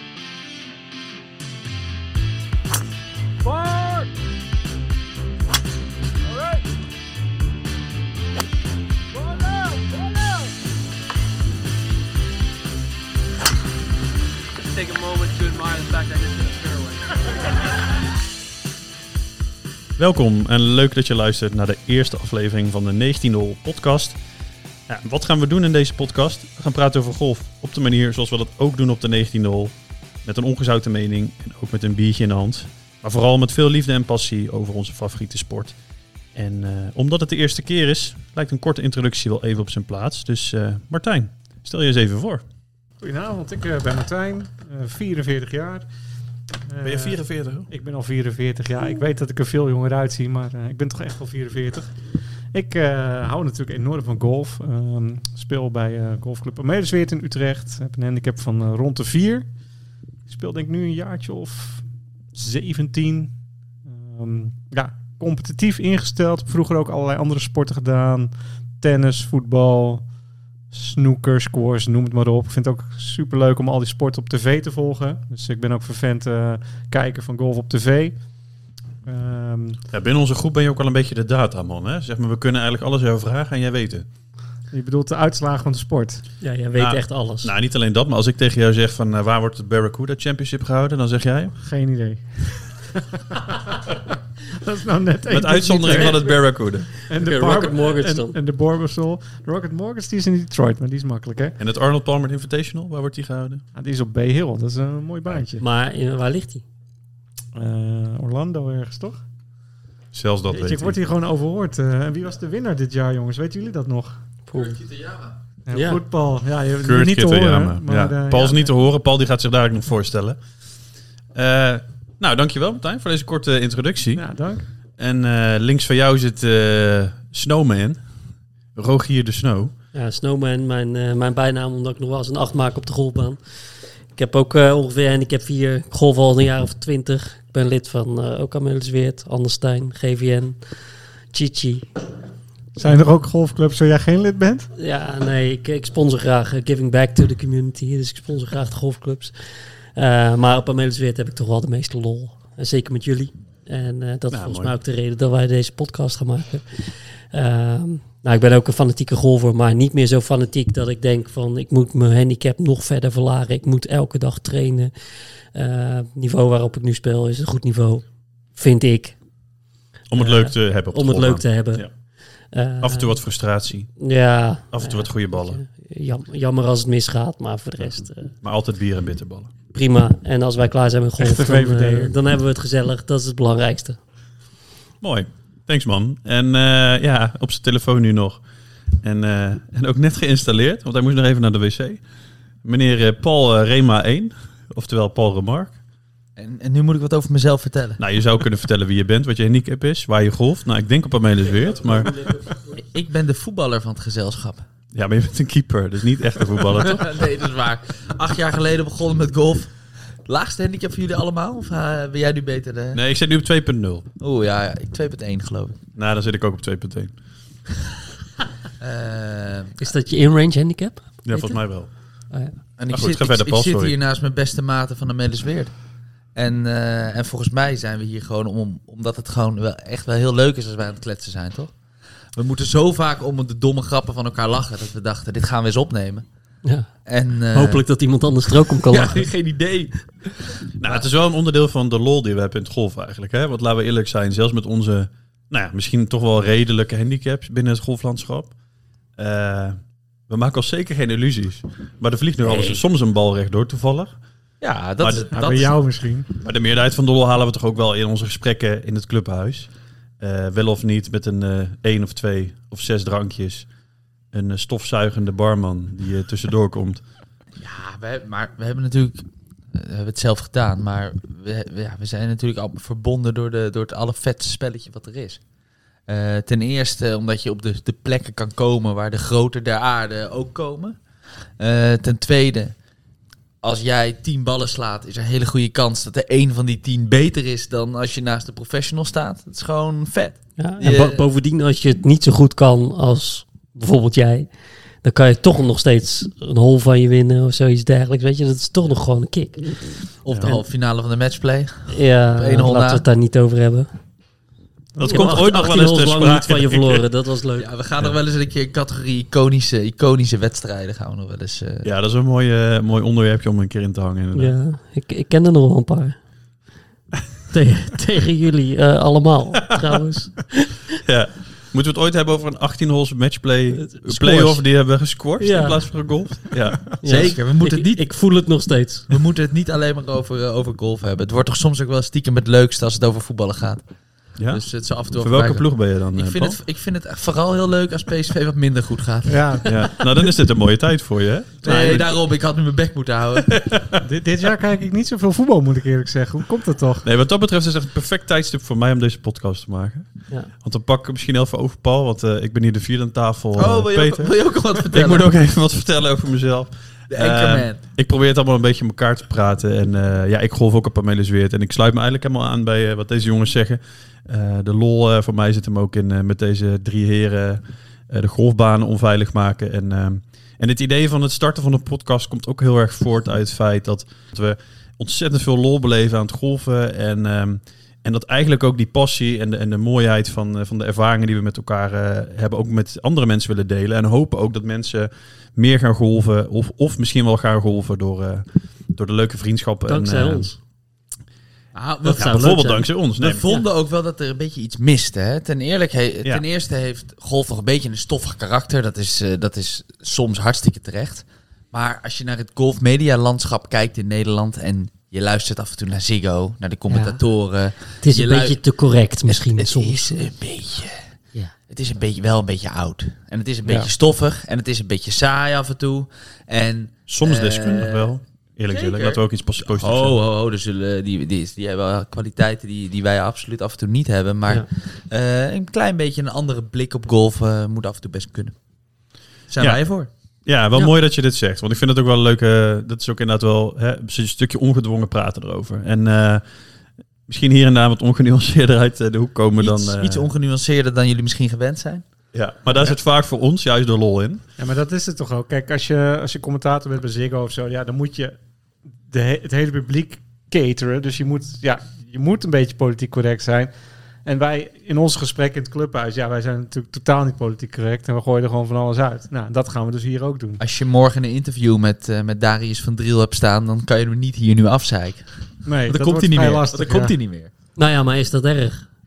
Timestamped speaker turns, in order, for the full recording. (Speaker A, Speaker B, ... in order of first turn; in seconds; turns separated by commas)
Speaker A: 3.5-4.0, Speaker A: 9.2-9.9, Speaker A: 14.6-17.1, Speaker B: 20.0-24.2, Speaker B: 24.9-29.7, Speaker B: 30.2-35.7, Speaker B: 36.3-42.4, Speaker C: 43.0-45.9, Speaker C: 46.7-47.1, Speaker B: 46.8-47.7, Speaker C: 47.7-51.9, Speaker C: 52.5-59.5, Speaker C: 60.3-63.3, Speaker C: 63.9-70.0, Speaker C: 70.7-78.2, Speaker C: 79.0-79.8, Speaker B: 79.9-84.0, Speaker C: 84.7-86.2, Speaker D: 86.4-87.5, Speaker B: 86.8-91.5, Speaker C: 91.6-93.8, Speaker C: 94.5-96.3, Speaker B: 95.3-96.9, Speaker C: 97.1-101.5, Speaker D: 97.1-98.3, Speaker B: 101.6-103.6, Speaker C: 103.7-105.6, Speaker D: 105.6-106.6, Speaker C: 107.5-109.2, Speaker B: 110.1-111.0, Speaker C: 110.5-114.2, Speaker D: 114.5-114.8, Speaker E: 114.5-115.3, Speaker C: 115.7-118.7, Speaker D: 115.7-116.0, Speaker B: 116.8-120.4, Speaker B: 121.3-124.2, Speaker C: 124.1-124.7, Speaker B: 125.0-128.0, Speaker B: 128.8-129.7, Speaker D: 129.9-133.4, Speaker D: 134.1-140.6, Speaker D: 141.3-141.8, Speaker C: 142.7-144.7, Speaker D: 144.8-149.3, Speaker D: 149.9-164.9, Speaker B: 154.3-154.7, Speaker D: 165.5-168.0, Speaker D: 168.6-169.2, Speaker B: 170.1-171.9, Speaker D: 170.2-171.8, Speaker D: 172.5-173.1, Speaker B: 172.8-173.9, Speaker D: 174.0-178.3, Speaker B: 174.7-175.6, Speaker B: 177.8-179.5, Speaker D: 179.7-184.0, Speaker C: 181.2-182.1, Speaker B: 185.0-188.4, Speaker B: 189.0-192.0, Speaker B: 192.6-195.7, Speaker E: 196.4-198.0, Speaker B: 198.0-202.3, Speaker E: 202.8-204.6, Speaker B: 204.9-207.1, Speaker E: 206.7-209.7, Speaker E: 210.2-213.0, Speaker B: 212.9-214.1, Speaker E: 214.2-215.8, Speaker B: 215.9-217.1, Speaker E: 218.8-219.9, Speaker D: 219.8-221.6, Speaker B: 221.2-221.9, Speaker E: 222.8-225.7, Speaker B: 222.9-223.9, Speaker E: 226.3-231.7, Speaker E: 232.3-236.2, Speaker D: 236.6-236.9, Speaker E: 237.1-237.8, Speaker D: 237.5-239.3, Speaker E: 238.9-241.1, Speaker B: 240.8-248.5, Speaker B: 249.2-249.8, Speaker B: 250.3-254.1, Speaker E: 252.4-252.8, Speaker E: 254.6-255.7, Speaker B: 255.0-255.3, Speaker C: 255.3-256.3, Speaker B: 256.4-259.7, Speaker B: 260.2-263.7, Speaker B: 264.3-267.0, Speaker E: 267.6-275.4, Speaker E: 276.1-281.0, Speaker E: 281.6-282.7, Speaker E: 283.6-291.2, Speaker D: 290.6-294.5, Speaker D: 295.0-300.6, Speaker E: 300.2-303.0, Speaker D: 301.9-303.9, Speaker C: 304.9-305.3, Speaker D: 305.0-307.7, Speaker B: 305.0-307.0, Speaker E: 307.6-311.9, Speaker B: 311.8-314.5, Speaker D: 314.3-316.2, Speaker D: 317.5-320.8, Speaker B: 321.0-327.4, Speaker D: 323.7-324.6, Speaker D: 325.4-325.9, Speaker D: 327.0-329.1, Speaker E: 327.0-328.1, Speaker E: 329.1-333.8, Speaker B: 334.4-336.6, Speaker E: 334.5-339.7, Speaker C: 339.3-339.7, Speaker B: 339.6-342.2, Speaker E: 341.6-343.6, Speaker C: 341.6-342.0, Speaker B: 343.4-344.0, Speaker C: 344.0-347.0, Speaker B: 347.0-390.5, Speaker E: 353.6-355.3, Speaker E: 357.1-357.8, Speaker D: 389.9-390.6, Speaker E: 391.7-392.7, Speaker D: 392.0-392.9, Speaker B: 392.1-393.6, Speaker E: 393.2-408.6, Speaker D: 406.9-407.2, Speaker D: 408.0-410.2, Speaker E: 409.3-411.0, Speaker E: 411.7-418.1, Speaker C: 413.6-413.9, Speaker B: 417.1-420.2, Speaker E: 418.7-428.5, Speaker E: 429.5-430.1, Speaker B: 430.4-436.4, Speaker B: 437.3-440.3, Speaker E: 439.6-442.0, Speaker B: 442.3-444.4, Speaker C: 444.6-448.4, Speaker C: 449.1-453.7, Speaker C: 454.2-460.6, Speaker E: 460.6-465.3, Speaker C: 465.6-467.1, Speaker E: 465.9-467.5, Speaker D: 467.8-468.8